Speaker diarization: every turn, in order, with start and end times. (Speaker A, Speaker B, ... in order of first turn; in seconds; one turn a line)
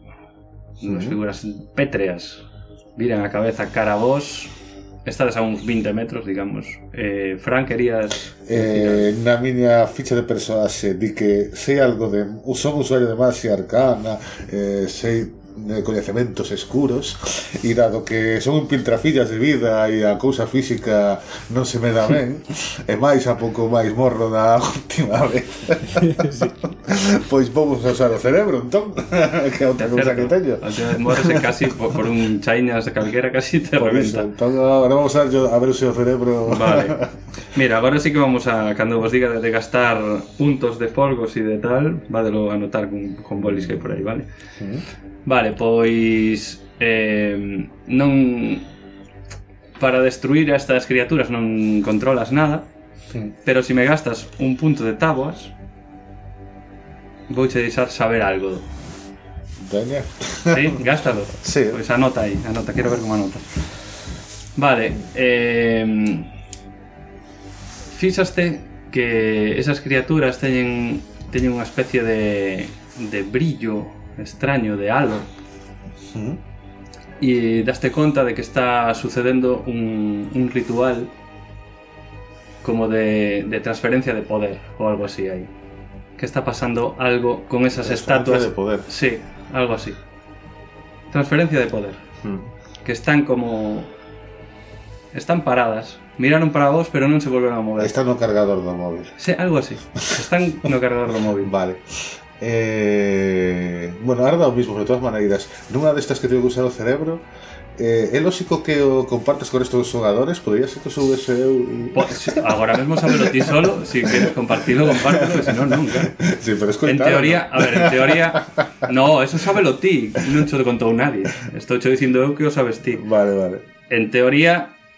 Speaker A: 0.8-2.5
Speaker B: 0.8-1.2
Speaker A: 3.0-4.5
Speaker A: 5.0-9.1
Speaker B: 8.5-31.7
Speaker A: 29.8-34.3
Speaker B: 33.8-37.1
Speaker A: 36.5-37.0
Speaker A: 37.5-44.3
Speaker B: 43.4-43.9
Speaker A: 45.2-48.6
Speaker A: 49.8-52.7
Speaker A: 53.5-55.5
Speaker A: 57.3-58.7
Speaker B: 59.6-60.8
Speaker A: 60.5-63.5
Speaker B: 61.4-61.8
Speaker A: 64.6-66.3
Speaker A: 67.9-75.3
Speaker B: 76.1-76.4
Speaker A: 77.2-81.1
Speaker A: 82.6-85.5
Speaker A: 86.2-90.0
Speaker B: 87.8-88.9
Speaker A: 91.1-92.0
Speaker B: 92.2-92.5
Speaker A: 92.8-93.9
Speaker A: 95.1-97.9
Speaker B: 97.8-99.1
Speaker A: 99.2-101.5
Speaker B: 101.4-107.2
Speaker B: 107.8-112.5
Speaker A: 111.9-116.1
Speaker B: 113.0-118.9
Speaker A: 116.8-123.0
Speaker B: 122.9-123.6
Speaker A: 123.9-124.7